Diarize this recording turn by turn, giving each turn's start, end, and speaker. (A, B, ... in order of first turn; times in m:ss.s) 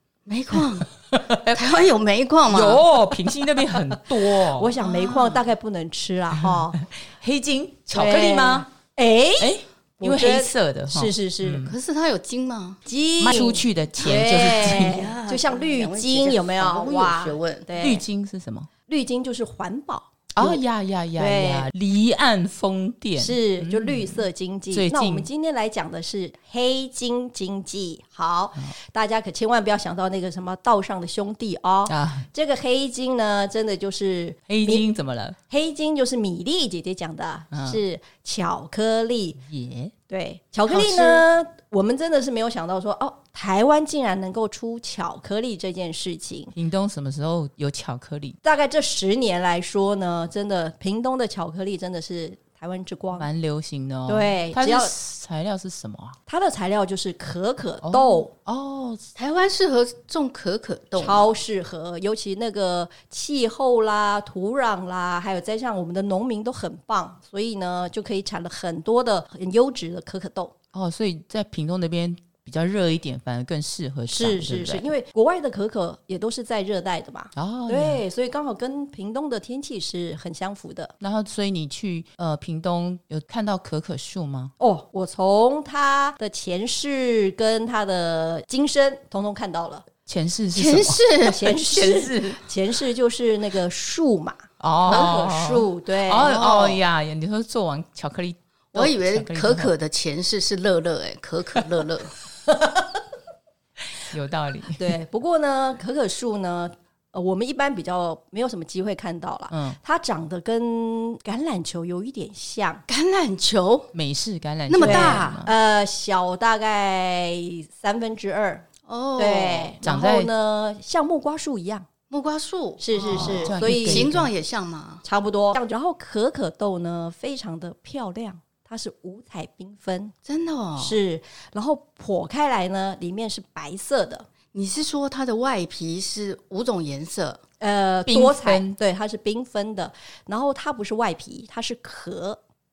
0:00.3-0:00.9 A
0:00.6-0:01.9 B
0:01.5-0:02.9 A
0:02.5-0:04.8 B
0:04.5-0:06.8 C
0:04.8-0:05.5 A
0:06.4-0:08.7 B
0:07.9-0:11.7 C
0:09.4-0:11.8 B
0:11.6-0:12.8 A
0:12.9-0:18.0 C
0:13.2-0:15.1 B
0:14.3-0:17.7 A
0:17.8-0:18.7 B
0:18.9-0:20.6 C
0:20.4-0:25.3 B
0:21.2-0:21.7 C
0:23.2-0:34.9 C
0:31.9-0:32.3 B
0:34.5-0:35.4 B
0:35.5-0:39.4 C
0:37.5-0:37.8 B
0:39.4-0:39.9 B
0:40.1-0:46.5 C
0:40.7-0:41.2 B
0:46.6-0:48.4 B
0:48.4-0:53.3 C
0:53.2-0:56.2 B
0:54.1-0:54.9 C
0:56.3-0:58.3 C
0:57.8-0:59.1 B
0:59.2-1:01.3 A
1:01.0-1:10.5 C
1:10.7-1:14.9 B
1:14.1-1:20.9 C
1:17.4-1:18.0 B
1:21.0-1:24.5 B
1:24.6-1:29.9 C
1:30.1-1:31.0 B
1:30.5-1:31.5 A
1:31.2-1:36.4 C
1:31.6-1:32.4 B
1:34.6-1:39.7 B
1:34.9-1:35.2 A
1:36.2-1:36.8 A
1:38.7-1:42.2 A
1:44.0-1:45.0 B
1:44.8-1:52.8 C
1:49.5-1:49.8 B
1:52.9-1:53.9 A
1:53.9-1:55.5 B
1:54.7-1:55.3 A
1:54.8-2:01.9 C
1:58.9-1:59.8 A
1:59.8-2:00.3 B
2:02.1-2:05.0 A
2:02.8-2:04.1 C
2:03.1-2:04.3 B
2:05.0-2:10.1 C
2:10.2-2:11.0 A
2:10.8-2:14.3 C
2:14.5-2:17.4 A
2:17.6-2:22.4 C
2:18.1-2:18.8 B